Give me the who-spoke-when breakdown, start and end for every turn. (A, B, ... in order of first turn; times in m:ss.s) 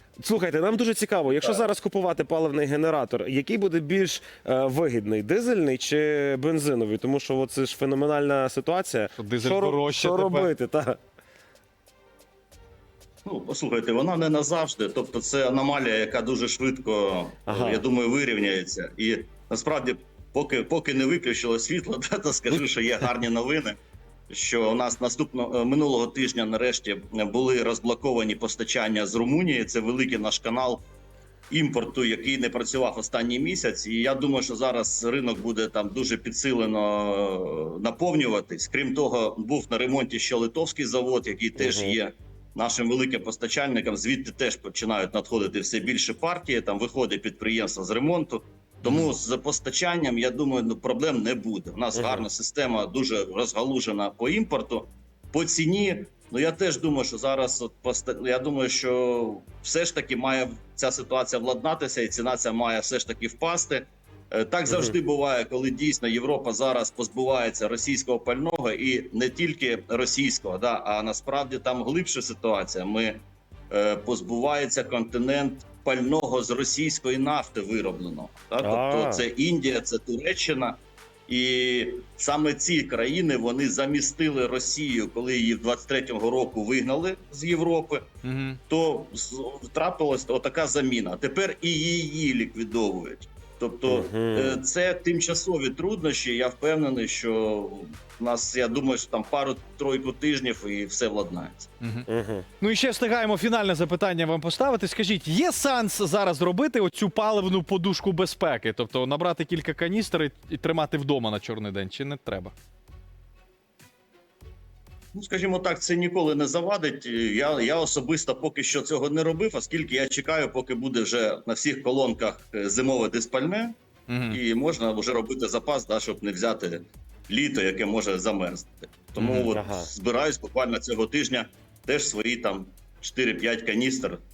0:00.2-0:11.0 A
0:01.3-0:01.6 B
0:09.2-0:10.5 C
0:13.2-0:23.8 B
0:17.5-0:17.9 A
0:24.3-0:30.8 B
0:31.5-1:20.8 B
0:41.6-0:42.0 A
0:48.8-0:49.1 C
0:51.9-0:52.3 A
1:18.6-1:19.3 A
1:21.3-1:28.1 B
1:28.2-1:28.6 C
1:28.7-1:41.7 B
1:33.9-1:34.6 A
1:41.8-1:42.1 C
1:42.1-1:42.5 A
1:42.6-1:52.5 C
1:55.1-2:03.8 B
2:04.1-2:04.4 C
2:04.3-2:14.2 B
2:09.2-2:09.5 C
2:09.5-2:09.9 A